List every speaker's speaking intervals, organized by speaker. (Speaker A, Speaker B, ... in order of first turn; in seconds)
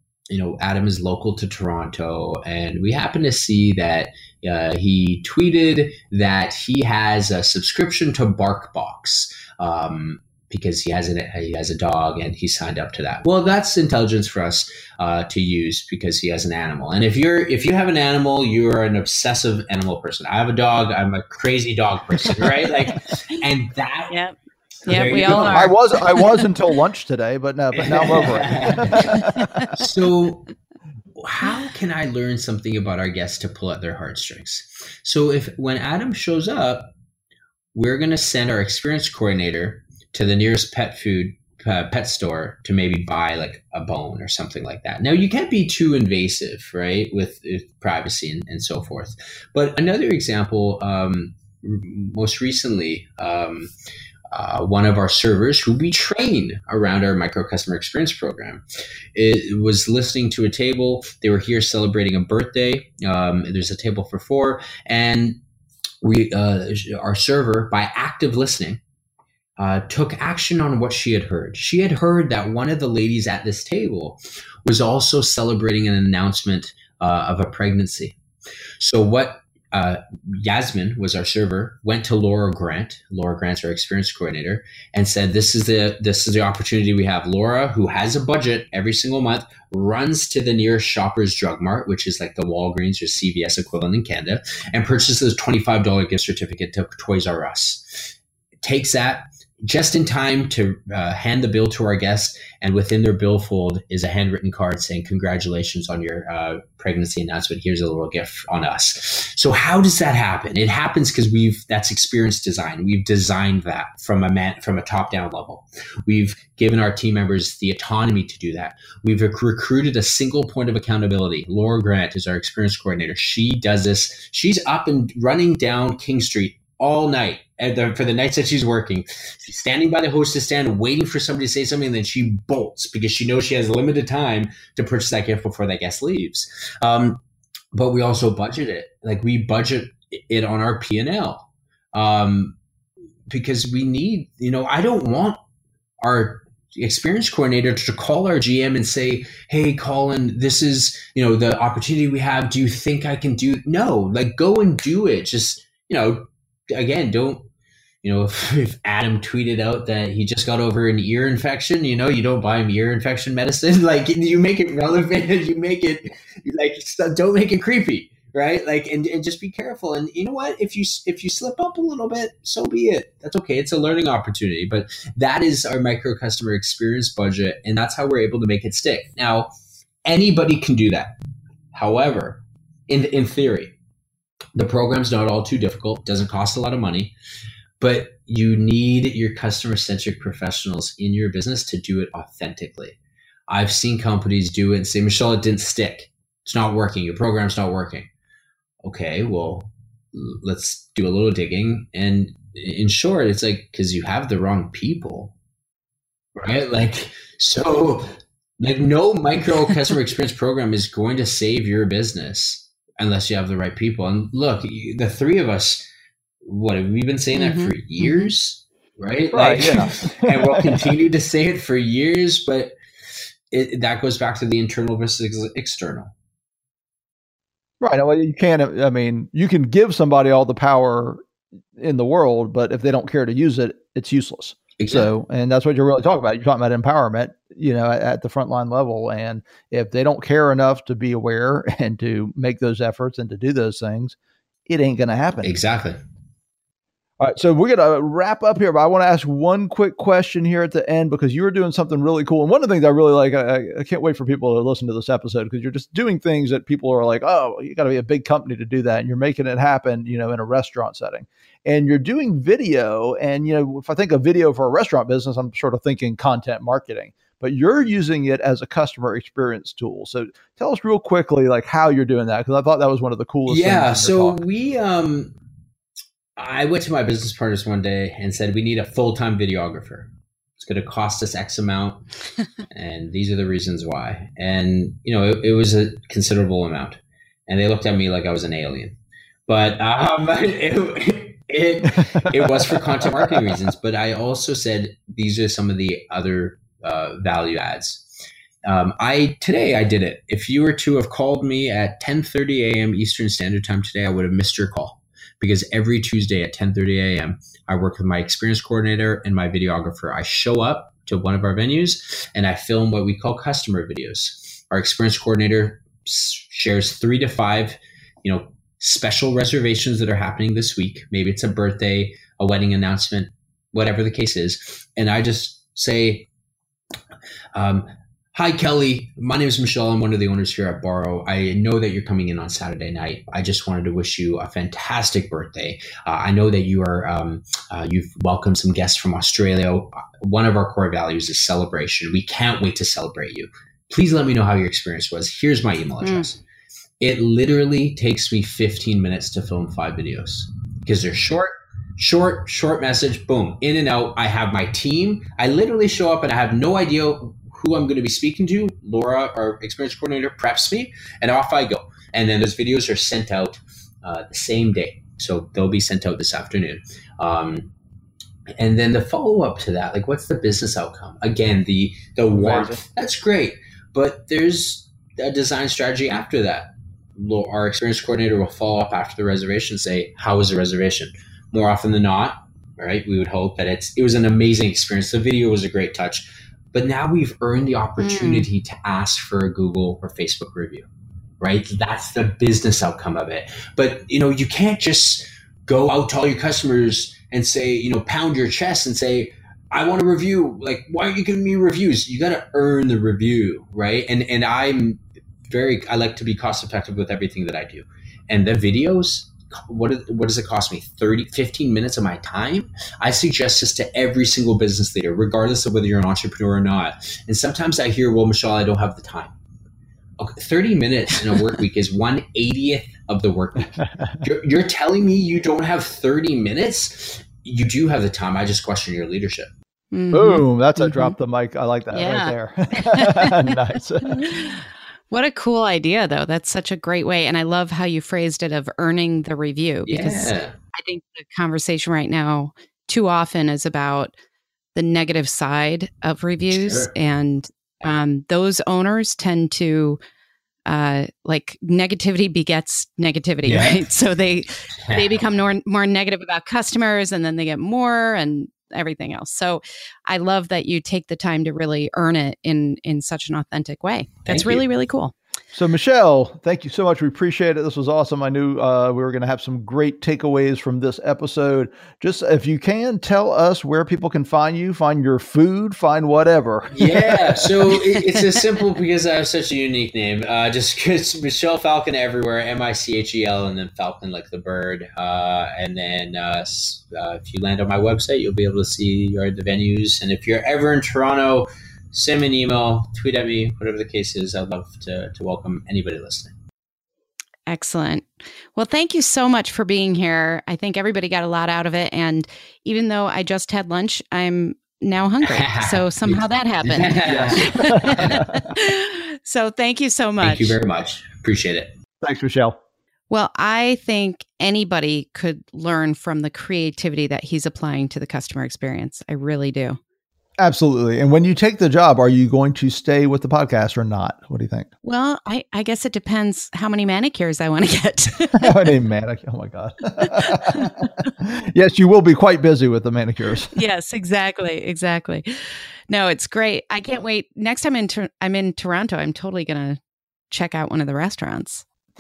Speaker A: 0.3-24.1, 24.9-25.9, 27.7-30.5, 31.2-36.9, 37.7-53.7, 54.3-58.6, 59.1-65.4, 66.0-68.8, 69.6-78.2, 78.8-137.2, 137.7-142.6, 143.3-145.4, 146.0-157.5, 158.0-179.5, 180.1-181.2, 181.7-183.8, 184.6-187.1, 187.8-193.0, 193.5-198.1, 198.8-205.3, 206.4-215.8, 216.4-222.7, 223.5-226.1, 234.8-235.1, 245.4-246.0, 273.5-275.4, 276.4-282.1, 282.7-298.1, 298.6-326.3, 327.6-346.4, 347.0-367.7, 368.6-390.9, 391.4-419.4, 420.2-429.5, 439.9-440.6, 446.5-446.9, 453.4-453.9, 454.8-455.2, 464.3-464.6, 476.7-496.3, 505.2-508.4, 510.2-511.7
Speaker B: 24.1-24.4, 24.9-26.5, 29.1-29.6, 217.3-218.3, 346.0-346.3, 388.0-388.5, 429.9-431.1, 431.9-433.5, 434.1-444.1, 444.8-450.0, 450.7-465.1, 497.5-510.6, 513.1-519.8, 524.8-528.5, 530.0-530.9, 533.5-535.3, 535.9-539.8, 540.3-541.6
Speaker C: 25.3-29.7, 219.3-220.9, 227.8-231.2, 231.8-244.2, 244.7-245.5, 247.2-274.4, 292.2-292.5, 372.4-372.8, 430.1-434.6, 465.5-477.2, 507.1-508.5, 512.0-512.6, 520.4-524.7, 528.4-533.5